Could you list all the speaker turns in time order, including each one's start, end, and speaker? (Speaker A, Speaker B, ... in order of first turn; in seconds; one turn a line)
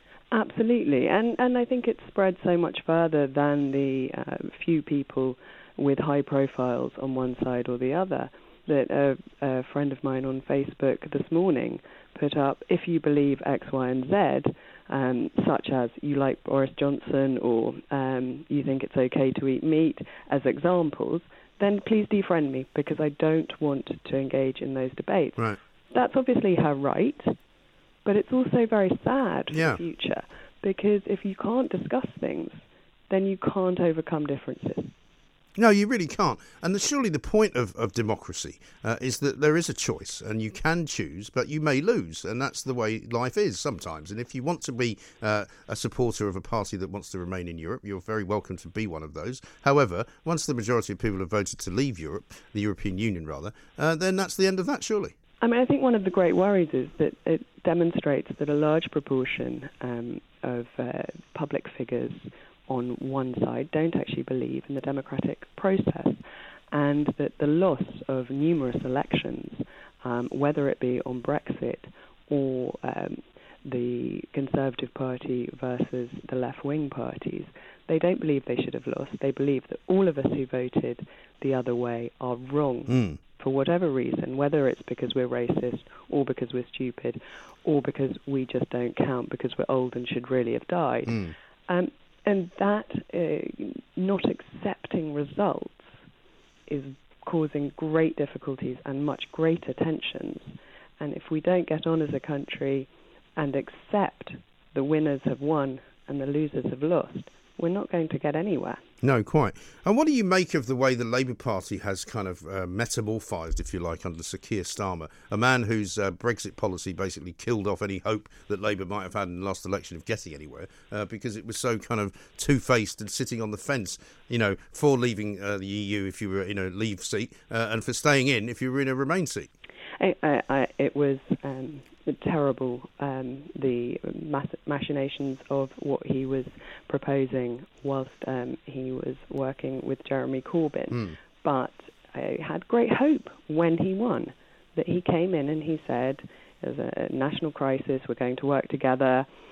Speaker A: 0.3-27.3
Speaker A: 28.0-34.9
Speaker B: 29.5-29.8
Speaker B: 35.5-55.1
Speaker A: 55.4-66.2
Speaker A: 66.7-95.9
Speaker B: 82.9-83.2
Speaker B: 91.1-91.3
Speaker A: 96.7-108.8
Speaker B: 109.0-129.5
Speaker A: 130.0-149.3
Speaker B: 140.9-141.2